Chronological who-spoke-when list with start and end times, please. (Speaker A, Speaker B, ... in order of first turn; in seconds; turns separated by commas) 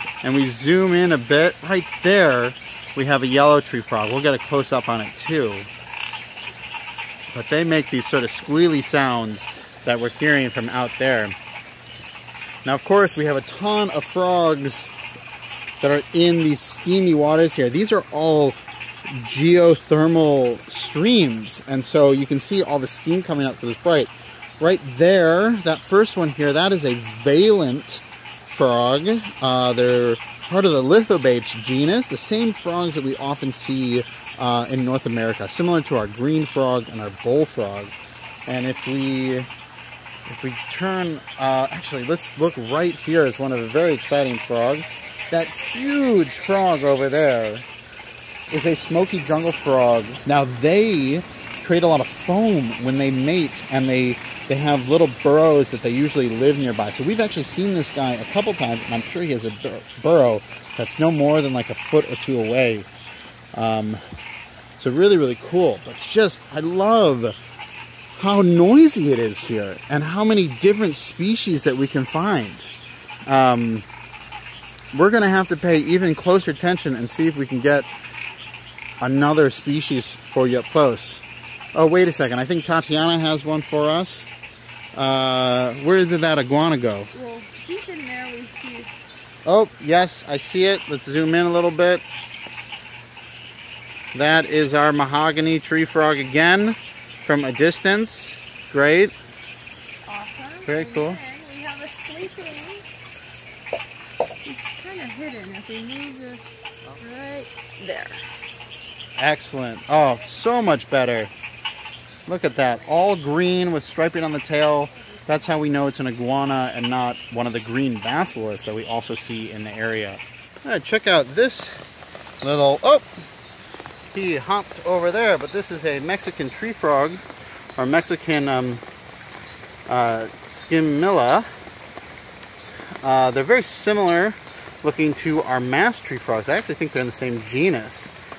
Speaker A: 0.2-5.7, Speaker A: 7.3-11.3, Speaker A: 12.7-14.9, Speaker A: 15.8-37.9, Speaker A: 38.5-39.5, Speaker A: 40.3-47.7, Speaker A: 48.5-62.9, Speaker A: 63.5-64.0, Speaker A: 64.8-67.4, Speaker A: 68.1-72.7, Speaker A: 73.3-73.9, Speaker A: 74.9-77.9, Speaker A: 79.0-84.3, Speaker A: 85.0-87.1, Speaker B: 87.1-88.9, Speaker A: 89.5-92.0, Speaker A: 94.1-99.1, Speaker B: 100.1-102.9, Speaker A: 100.7-101.2, Speaker B: 104.4-108.3, Speaker A: 109.2-111.3, Speaker A: 112.3-121.7, Speaker A: 122.4-123.1, Speaker A: 124.1-127.2, Speaker A: 127.8-128.8, Speaker A: 129.9-131.5, Speaker A: 133.0-138.1